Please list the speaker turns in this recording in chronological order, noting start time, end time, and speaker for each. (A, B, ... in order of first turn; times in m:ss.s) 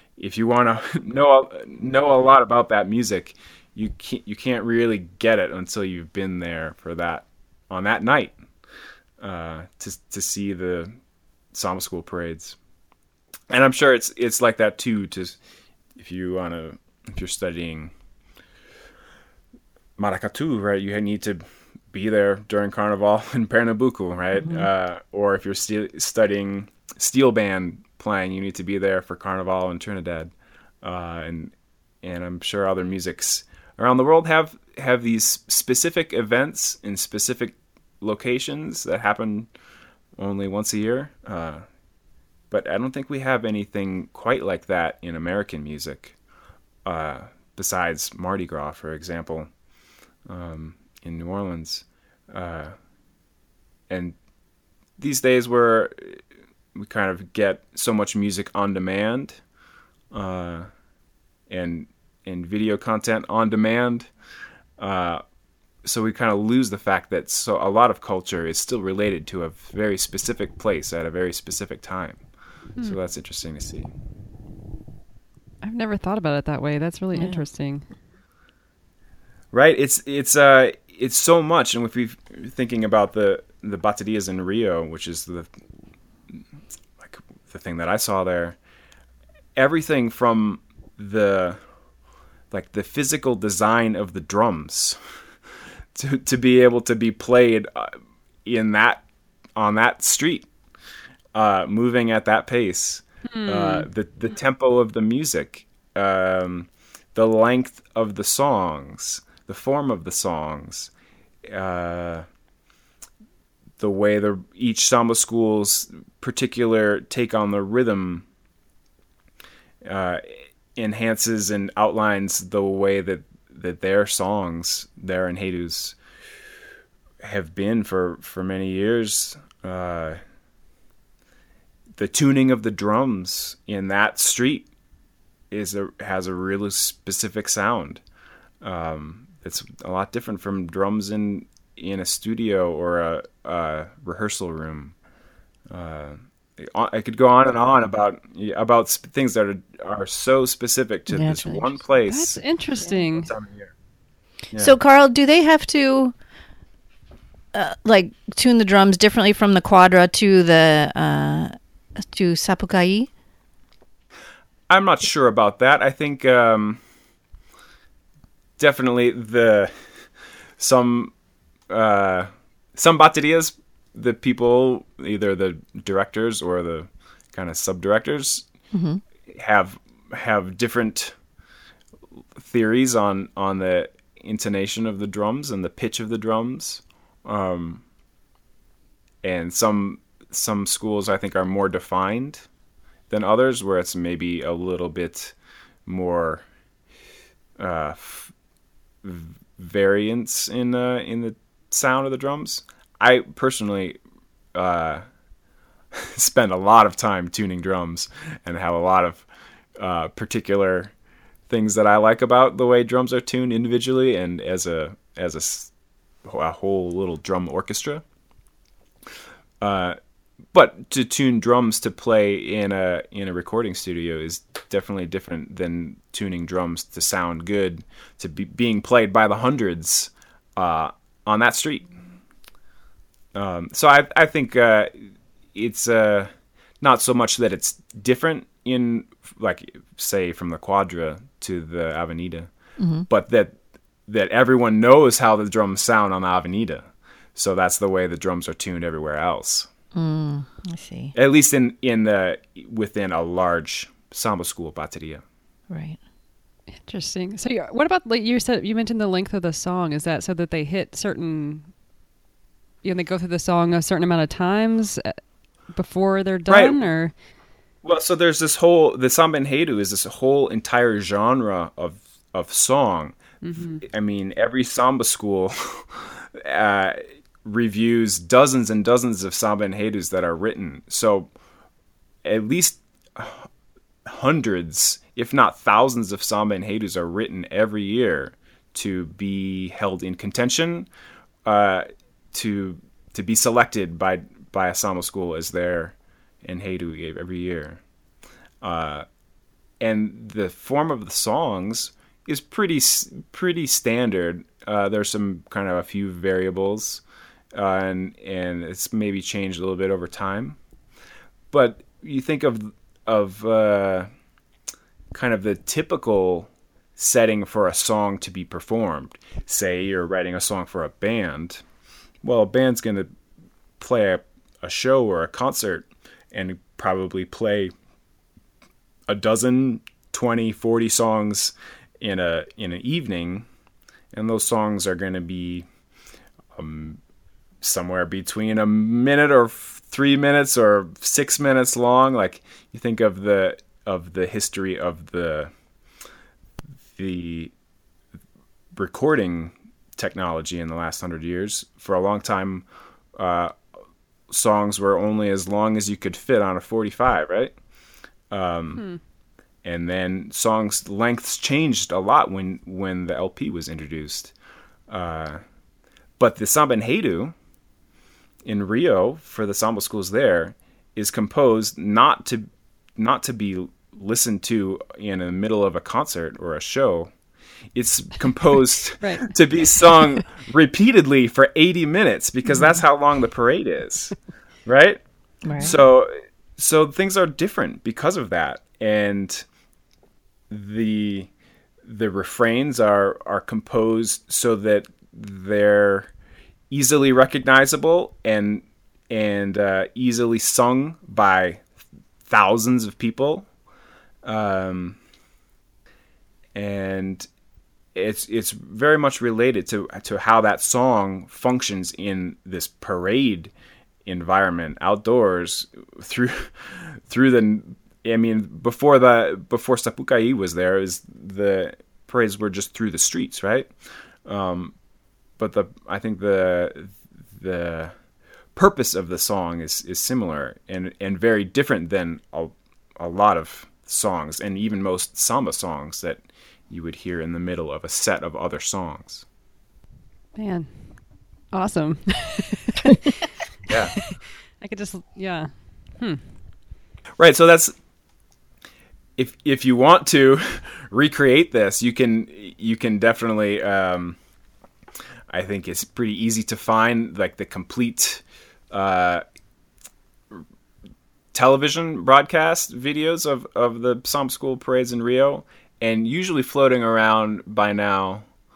0:00.2-0:08.4 A
0:09.2-0:10.9 A
0:11.5-0:12.6 A
0:13.5-0:15.4 A
0:16.0-0:17.9 A
0:20.0-0:30.3 A
0:24.4-0:24.7 B
0:30.8-0:39.5 A
0:40.2-0:41.6 A
0:42.5-0:46.2 A
0:46.8-0:49.5 A
0:50.3-0:52.7 A
0:53.9-0:54.2 A
0:55.0-0:56.2 A
0:56.8-0:59.4 A
1:00.1-1:00.7 A
1:01.5-1:04.1 A
1:04.8-1:05.2 A
1:05.8-1:12.2 A
1:12.8-1:13.9 A
1:15.6-1:17.9 C
1:17.1-1:17.4 B
1:19.5-1:25.5 A
1:27.0-1:28.6 A
1:29.6-1:31.6 A
1:32.5-1:35.0 A
1:35.9-1:39.0 A
1:39.6-1:40.5 A
1:41.4-1:50.9 A
1:43.3-1:43.9 C
1:51.4-1:52.2 A
1:53.8-1:58.2 A
1:59.8-2:00.2 A
2:00.8-2:06.0 A
2:07.2-2:10.2 A
2:12.0-2:14.7 A
2:15.5-2:18.0 A
2:18.6-2:25.0 A
2:25.7-2:32.4 A
2:31.1-2:31.7 B
2:32.1-2:33.3 C
2:33.2-2:33.7 A
2:34.6-2:36.2 B
2:37.5-2:43.1 B
2:44.7-2:46.8 A
2:48.6-2:50.0 A
2:50.6-2:51.1 A
2:51.7-2:58.5 A
2:58.7-2:59.0 B
2:59.3-3:01.2 A
3:02.4-3:07.8 A
3:09.2-3:12.5 A
3:13.1-3:15.4 A
3:15.9-3:16.4 A
3:17.6-3:18.3 A
3:19.0-3:24.0 A
3:24.6-3:25.0 A
3:26.0-3:29.3 A
3:29.8-3:30.9 A
3:31.5-3:35.7 A
3:36.2-3:38.0 A
3:39.6-3:40.0 A
3:40.5-3:52.0 A
3:53.4-4:02.5 A
4:02.8-4:03.1 B
4:03.1-4:09.7 A
4:09.9-4:11.1 B
4:11.2-4:15.2 A
4:15.7-4:16.0 B
4:16.8-4:21.7 C
4:22.8-4:25.2 C
4:25.7-4:27.1 C
4:26.5-4:26.8 A
4:27.8-4:33.2 A
4:33.4-4:33.8 C
4:33.8-4:41.3 A
4:42.2-4:43.5 A
4:44.1-4:50.9 A
4:51.4-4:57.8 A
4:58.6-4:59.1 A
4:59.8-5:07.0 A
5:07.5-5:10.6 A
5:11.5-5:14.1 A
5:15.1-5:21.6 A
5:22.2-5:23.1 A
5:23.8-5:27.7 A
5:29.1-5:33.5 A
5:34.1-5:35.7 A
5:36.6-5:37.0 A
5:37.6-5:45.5 A
5:46.9-5:47.5 A
5:48.7-5:52.6 A
5:53.2-5:53.6 A
5:54.3-5:57.5 A
5:58.3-5:58.8 A
5:58.8-5:59.0 C
5:59.6-6:04.3 A
6:04.9-6:05.4 A
6:06.2-6:07.3 A
6:08.4-6:17.1 A
6:17.8-6:24.2 A
6:19.0-6:19.7 C
6:24.7-6:25.0 A
6:25.4-6:25.8 B
6:25.6-6:29.5 A
6:30.5-6:31.3 A
6:31.8-6:36.1 A
6:36.7-6:41.6 A
6:42.3-6:43.5 A
6:44.2-6:45.0 A
6:46.6-6:47.3 A
6:48.0-6:53.5 A
6:54.0-7:03.7 A
7:04.2-7:04.8 A
7:05.4-7:08.0 A
7:08.6-7:19.2 A
7:20.4-7:23.1 C
7:23.7-7:24.0 A
7:24.1-7:26.3 C
7:27.2-7:27.7 A
7:29.2-7:34.2 A
7:35.3-7:39.2 A
7:41.3-7:48.3 A